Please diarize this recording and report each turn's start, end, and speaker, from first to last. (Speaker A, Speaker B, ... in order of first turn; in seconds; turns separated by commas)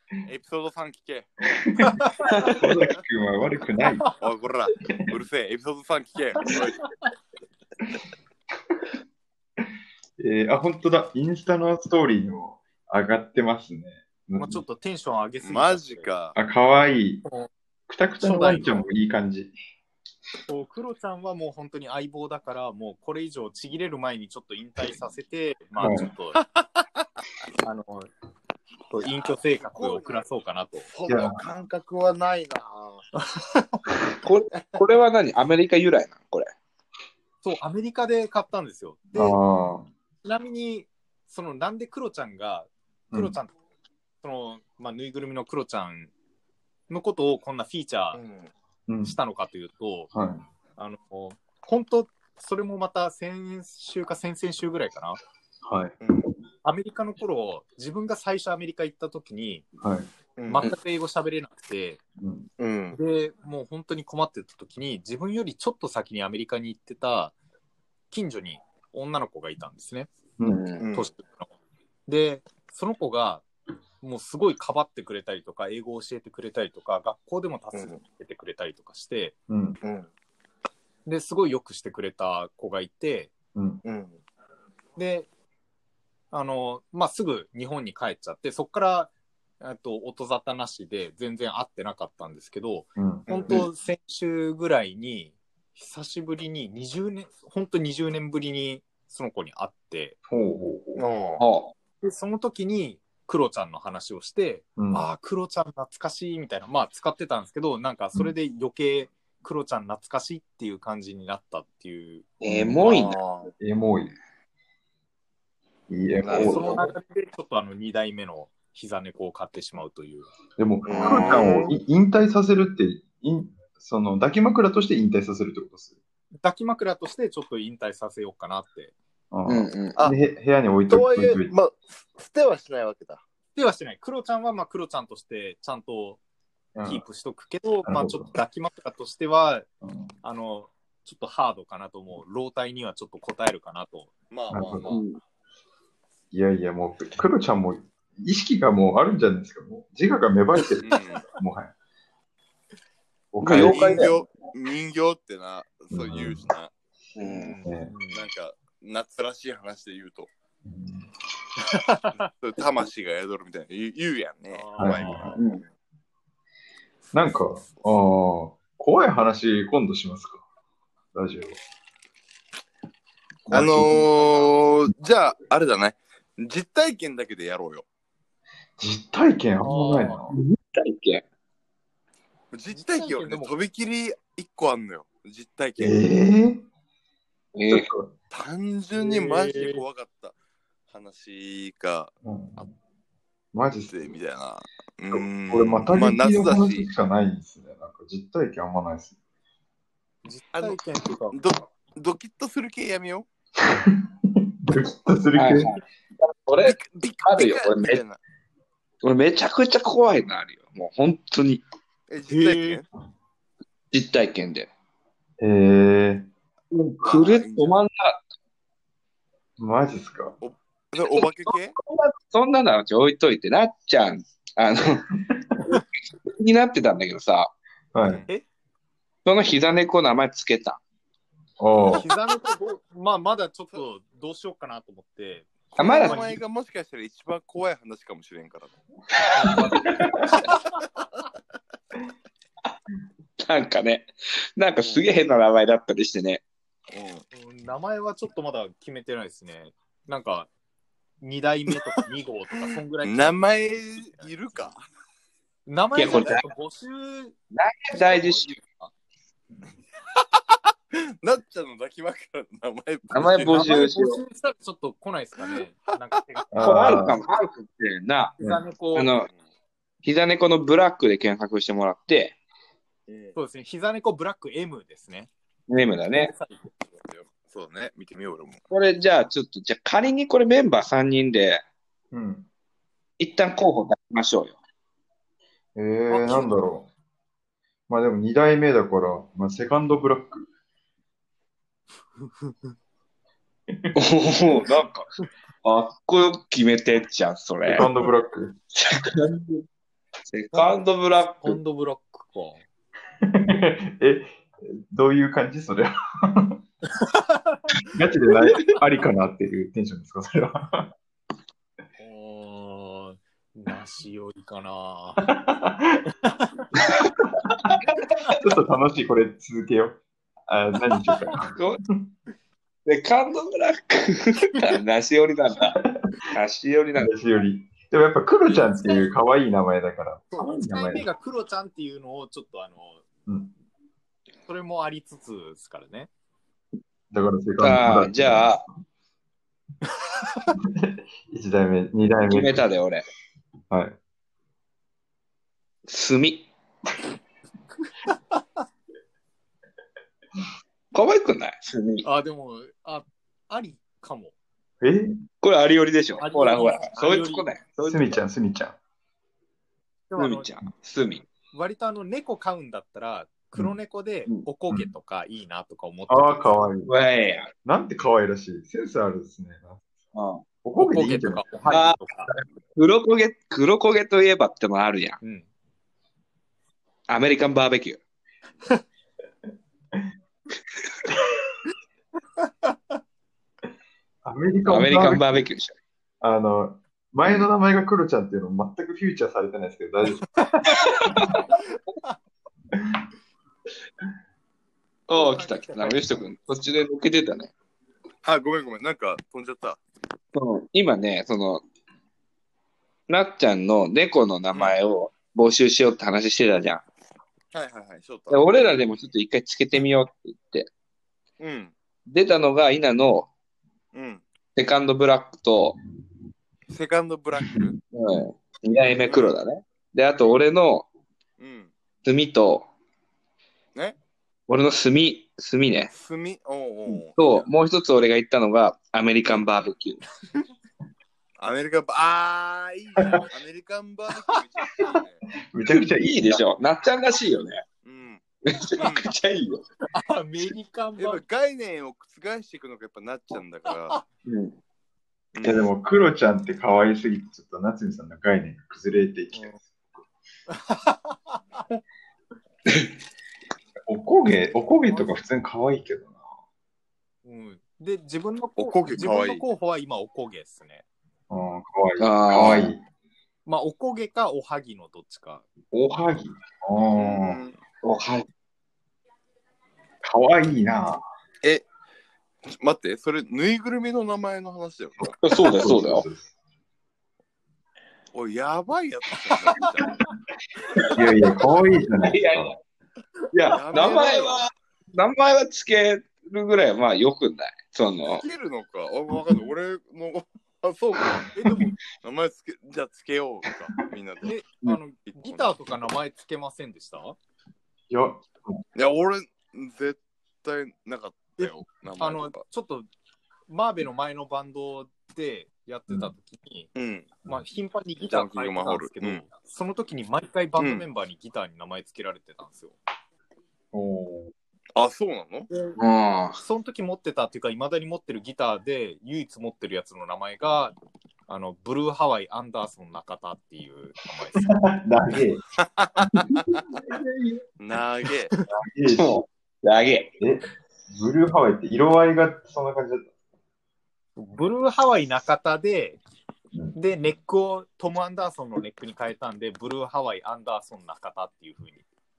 Speaker A: 0.2-1.5, Speaker B: 1.8-2.1, Speaker C: 2.3-2.6, Speaker D: 2.5-4.1, Speaker A: 4.2-6.8, Speaker D: 4.9-5.2, Speaker D: 10.2-14.6, Speaker B: 14.3-16.1, Speaker A: 15.4-16.4, Speaker D: 16.3-17.2, Speaker D: 17.9-19.5, Speaker B: 18.2-18.8, Speaker B: 20.5-26.4, Speaker D: 25.8-26.1, Speaker B: 27.6-28.1, Speaker B: 28.9-30.9, Speaker A: 29.0-30.2, Speaker A: 30.9-33.0, Speaker D: 31.1-31.4, Speaker B: 33.2-33.8, Speaker C: 34.2-36.5, Speaker B: 37.4-39.4, Speaker D: 39.1-39.9, Speaker B: 40.2-43.5, Speaker D: 43.1-43.4, Speaker B: 44.2-46.1, Speaker B: 46.9-48.2, Speaker A: 48.1-48.5, Speaker D: 48.9-49.2, Speaker B: 49.0-50.1, Speaker D: 50.1-50.4, Speaker B: 50.8-55.2, Speaker D: 55.6-56.0, Speaker A: 56.0-56.3, Speaker B: 56.6-59.6, Speaker D: 59.8-60.1, Speaker A: 60.4-60.7, Speaker B: 60.5-62.0, Speaker D: 62.2-62.5, Speaker A: 62.6-63.0, Speaker B: 62.9-67.3, Speaker B: 68.1-70.1, Speaker D: 70.4-70.7, Speaker C: 70.5-70.9, Speaker A: 70.8-71.1, Speaker B: 70.9-71.5, Speaker B: 72.1-73.4, Speaker B: 74.0-79.3, Speaker A: 77.7-78.0, Speaker D: 79.5-79.8, Speaker A: 79.8-80.1, Speaker B: 81.0-83.3, Speaker D: 83.5-83.8, Speaker A: 83.8-84.1, Speaker B: 85.0-85.3, Speaker B: 86.3-100.2, Speaker D: 93.0-93.3, Speaker A: 93.3-93.6, Speaker D: 100.3-101.0, Speaker A: 101.0-101.4, Speaker C: 101.4-101.7, Speaker B: 102.0-112.3, Speaker D: 104.8-105.1, Speaker C: 112.4-113.2, Speaker D: 112.4-112.8, Speaker A: 112.8-113.5, Speaker D: 113.6-114.2, Speaker D: 115.9-116.8, Speaker C: 116.2-116.8, Speaker A: 116.3-116.6, Speaker B: 116.4-120.3, Speaker D: 120.6-126.0, Speaker A: 120.9-121.7, Speaker C: 120.9-121.5, Speaker B: 121.2-121.7, Speaker B: 126.4-128.9, Speaker D: 129.3-131.5, Speaker C: 129.4-130.0, Speaker A: 130.9-133.2, Speaker B: 133.6-136.2, Speaker D: 136.7-137.0, Speaker B: 136.8-139.7, Speaker D: 137.8-138.3, Speaker D: 139.8-140.1, Speaker B: 140.2-144.1, Speaker A: 144.3-145.0, Speaker D: 144.5-144.9, Speaker C: 144.9-145.2, Speaker D: 146.3-151.7, Speaker A: 150.8-151.2, Speaker D: 153.3-154.1, Speaker C: 153.4-154.2, Speaker A: 153.5-156.7, Speaker D: 155.9-156.5, Speaker C: 157.2-157.6, Speaker B: 157.2-158.2, Speaker D: 157.6-157.9, Speaker A: 158.1-160.3, Speaker D: 160.6-161.1, Speaker B: 161.6-162.2, Speaker A: 162.2-165.5, Speaker B: 164.5-165.4, Speaker D: 164.8-165.4, Speaker C: 165.3-165.6, Speaker D: 167.1-170.4, Speaker D: 171.1-171.6, Speaker D: 173.4-174.1, Speaker A: 173.5-177.8, Speaker B: 173.5-174.7, Speaker D: 178.8-180.4, Speaker B: 179.6-180.2, Speaker C: 180.3-181.2, Speaker A: 182.5-186.0, Speaker B: 182.7-183.5, Speaker D: 185.8-186.6, Speaker C: 187.5-187.9, Speaker D: 187.7-188.1, Speaker A: 188.3-190.3, Speaker B: 189.0-189.8, Speaker A: 190.9-192.1, Speaker D: 192.2-192.7, Speaker D: 193.5-194.1, Speaker A: 193.9-196.9, Speaker D: 195.1-199.1, Speaker B: 200.2-201.4, Speaker A: 201.3-203.3, Speaker D: 203.6-205.7, Speaker C: 205.3-208.0, Speaker A: 206.6-208.2, Speaker C: 209.0-211.6, Speaker A: 212.1-212.9, Speaker B: 212.3-212.8, Speaker C: 213.9-214.7, Speaker D: 215.4-216.3, Speaker C: 216.7-218.2, Speaker A: 217.0-217.8, Speaker D: 219.6-220.4, Speaker A: 220.4-221.8, Speaker C: 221.1-225.1, Speaker C: 226.1-227.5, Speaker D: 227.9-228.2, Speaker C: 229.2-230.8, Speaker D: 231.6-232.1, Speaker A: 231.8-232.0, Speaker B: 231.9-236.3, Speaker C: 235.8-236.3, Speaker A: 235.8-238.8, Speaker B: 239.3-240.7, Speaker C: 239.3-240.4, Speaker C: 243.4-246.4, Speaker A: 244.8-245.1, Speaker A: 246.9-247.2, Speaker B: 247.3-250.5, Speaker B: 251.2-254.6, Speaker A: 252.6-254.8, Speaker B: 255.7-257.4, Speaker C: 255.9-256.5, Speaker C: 257.5-258.5, Speaker B: 257.9-258.9, Speaker A: 260.9-263.6, Speaker C: 263.1-264.2, Speaker B: 263.3-266.5, Speaker D: 266.5-267.2, Speaker C: 266.6-268.3, Speaker B: 268.4-269.1, Speaker C: 268.9-269.3, Speaker C: 270.0-272.4, Speaker A: 273.1-273.4, Speaker B: 273.3-275.3, Speaker C: 275.7-276.3, Speaker B: 276.1-276.7, Speaker A: 276.9-278.6, Speaker C: 278.7-281.6, Speaker D: 282.1-282.4, Speaker C: 283.2-284.6, Speaker D: 285.7-286.9, Speaker B: 286.1-286.6, Speaker D: 287.9-290.5, Speaker B: 292.2-292.7, Speaker C: 293.9-295.1, Speaker C: 295.6-297.9, Speaker D: 297.6-298.5, Speaker C: 298.7-299.6, Speaker C: 300.3-301.6, Speaker B: 301.4-302.6, Speaker D: 303.2-306.6, Speaker B: 306.9-307.8, Speaker D: 307.9-310.9, Speaker B: 312.0-315.3, Speaker D: 315.2-316.0, Speaker B: 316.2-316.5, Speaker D: 316.8-321.6, Speaker C: 321.4-321.8, Speaker C: 322.9-325.8, Speaker C: 326.3-327.1, Speaker D: 327.0-331.1, Speaker B: 328.5-329.1, Speaker B: 330.3-333.0, Speaker D: 333.3-333.5, Speaker B: 334.5-336.1, Speaker D: 337.1-338.6, Speaker C: 337.6-338.6, Speaker B: 340.0-340.5, Speaker D: 340.6-342.7, Speaker C: 342.3-343.0, Speaker D: 343.7-344.0, Speaker C: 345.9-346.5, Speaker C: 350.9-352.0, Speaker B: 352.0-354.3, Speaker D: 354.8-355.2, Speaker C: 355.4-358.2, Speaker B: 356.2-357.4, Speaker D: 357.8-358.8, Speaker B: 360.1-360.5, Speaker C: 360.2-361.2, Speaker B: 361.5-366.7, Speaker D: 366.1-366.9, Speaker C: 366.9-367.5, Speaker D: 367.6-369.8, Speaker C: 370.1-370.4, Speaker D: 370.6-371.5, Speaker B: 370.8-372.3, Speaker C: 371.7-375.2, Speaker B: 375.2-375.5, Speaker C: 377.1-378.0, Speaker B: 382.4-382.7, Speaker D: 384.2-385.5, Speaker C: 384.7-385.7, Speaker D: 386.2-390.4, Speaker B: 390.3-392.1, Speaker C: 390.8-391.4, Speaker C: 395.1-397.5, Speaker B: 395.1-396.2, Speaker A: 398.2-399.8, Speaker C: 400.3-401.6, Speaker C: 403.1-406.8, Speaker A: 404.5-404.8, Speaker A: 407.5-408.6, Speaker C: 408.3-410.7, Speaker A: 411.4-411.7, Speaker C: 412.1-413.3, Speaker A: 413.9-414.2, Speaker C: 414.6-415.8, Speaker D: 415.8-416.1, Speaker A: 416.7-417.8, Speaker C: 417.9-420.9, Speaker A: 419.0-419.4, Speaker A: 421.4-421.7, Speaker C: 422.0-422.7, Speaker C: 424.5-425.9, Speaker A: 425.9-427.5, Speaker C: 427.1-430.0, Speaker A: 431.4-435.2, Speaker B: 434.3-434.8, Speaker D: 435.5-436.4, Speaker C: 435.7-437.6, Speaker A: 437.8-438.2, Speaker C: 438.4-439.6, Speaker A: 438.8-439.1, Speaker B: 439.9-441.2, Speaker A: 441.0-444.0, Speaker C: 444.2-444.5, Speaker A: 445.3-445.7, Speaker D: 445.4-449.7, Speaker B: 449.3-449.6, Speaker B: 450.5-451.6, Speaker D: 453.9-456.2, Speaker B: 454.9-455.2, Speaker B: 457.2-460.8, Speaker A: 458.6-459.4, Speaker D: 461.3-462.8, Speaker C: 462.0-462.7, Speaker B: 463.4-465.4, Speaker D: 465.7-467.4, Speaker A: 466.9-467.6, Speaker C: 467.8-468.2, Speaker D: 470.0-471.0, Speaker A: 472.5-475.2, Speaker C: 475.2-476.0, Speaker D: 475.3-476.3, Speaker A: 478.1-480.0, Speaker D: 480.9-482.5, Speaker C: 482.0-482.6, Speaker C: 483.3-488.2, Speaker A: 483.5-484.4, Speaker B: 483.7-484.0, Speaker A: 488.1-491.3, Speaker B: 491.3-491.8, Speaker A: 492.0-494.3, Speaker B: 494.2-497.2, Speaker A: 495.1-495.6, Speaker D: 497.9-498.6, Speaker A: 498.7-502.4, Speaker B: 501.4-502.9, Speaker B: 503.5-506.7, Speaker A: 506.7-507.1, Speaker B: 507.2-512.8, Speaker A: 508.0-509.3, Speaker A: 510.6-510.9, Speaker D: 513.7-514.3, Speaker A: 514.7-515.5, Speaker B: 515.5-515.8, Speaker C: 515.8-516.4, Speaker B: 516.4-520.7, Speaker B: 521.3-524.5, Speaker D: 524.3-525.4, Speaker A: 525.6-526.8, Speaker D: 526.0-527.4, Speaker A: 527.6-528.3, Speaker D: 528.5-529.2, Speaker C: 528.9-530.1, Speaker D: 530.2-533.1, Speaker B: 534.2-536.0, Speaker B: 536.7-541.8